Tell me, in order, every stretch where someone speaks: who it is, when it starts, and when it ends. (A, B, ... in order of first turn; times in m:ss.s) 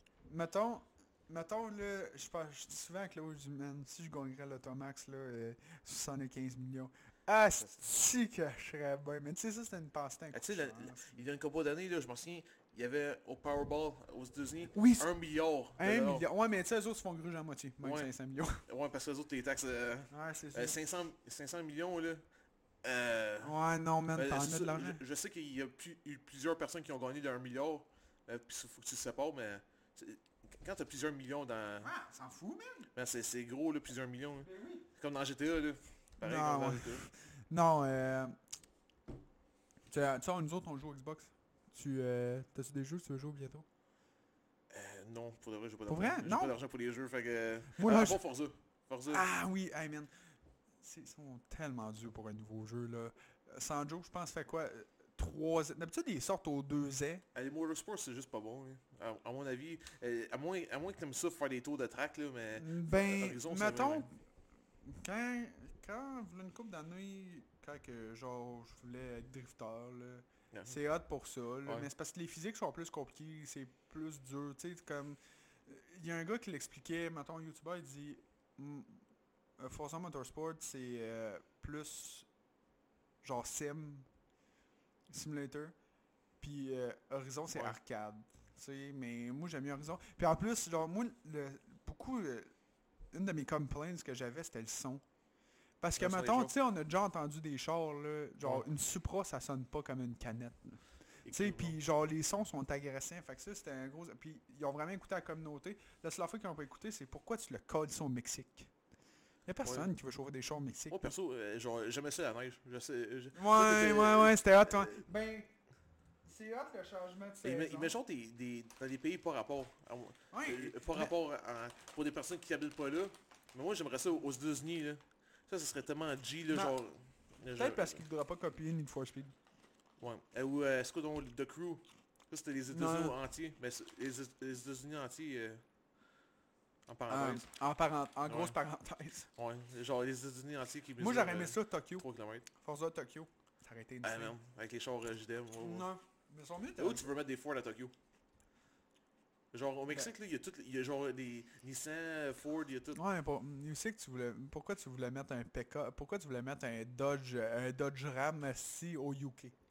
0:00.2-0:11.2 A
0:10.3-0:16.3 B
0:14.7-0:15.1 A
0:15.8-0:18.6 A
0:17.8-0:18.1 B
0:18.6-0:22.2 B
0:20.1-0:20.8 A
0:22.8-0:23.5 B
0:23.4-0:25.0 A
0:24.1-0:31.9 B
0:31.8-0:32.9 A
0:32.9-0:37.1 B
0:34.4-0:34.9 A
0:36.2-0:38.4 A
0:39.9-0:43.6 A
0:44.7-0:49.2 B
0:45.9-0:46.6 A
0:47.8-0:48.2 A
0:49.1-0:50.1 A
0:50.8-0:57.2 A
0:57.3-1:04.1 B
1:02.6-1:04.1 A
1:04.8-1:19.0 A
1:10.5-1:10.8 B
1:19.6-1:22.3 A
1:23.2-1:24.1 A
1:25.1-1:25.7 A
1:26.4-1:32.5 A
1:33.1-1:35.0 A
1:35.8-1:48.7 A
1:36.0-1:36.5 B
1:38.4-1:38.7 B
1:41.2-1:41.7 B
1:49.4-1:51.1 A
1:49.6-1:49.9 B
1:50.9-1:55.0 B
1:53.3-1:55.5 A
1:56.2-1:57.9 A
1:57.4-2:08.0 B
2:00.3-2:01.1 A
2:06.5-2:06.7 A
2:07.5-2:09.3 A
2:10.0-2:15.6 B
2:12.7-2:13.2 A
2:16.9-2:17.5 B
2:17.1-2:19.3 A
2:18.2-2:18.5 B
2:19.4-2:22.5 B
2:21.0-2:22.0 A
2:22.6-2:24.3 A
2:24.0-2:25.9 B
2:25.6-2:27.1 A
2:26.8-2:27.9 B
2:29.5-2:33.0 B
2:32.9-2:39.5 A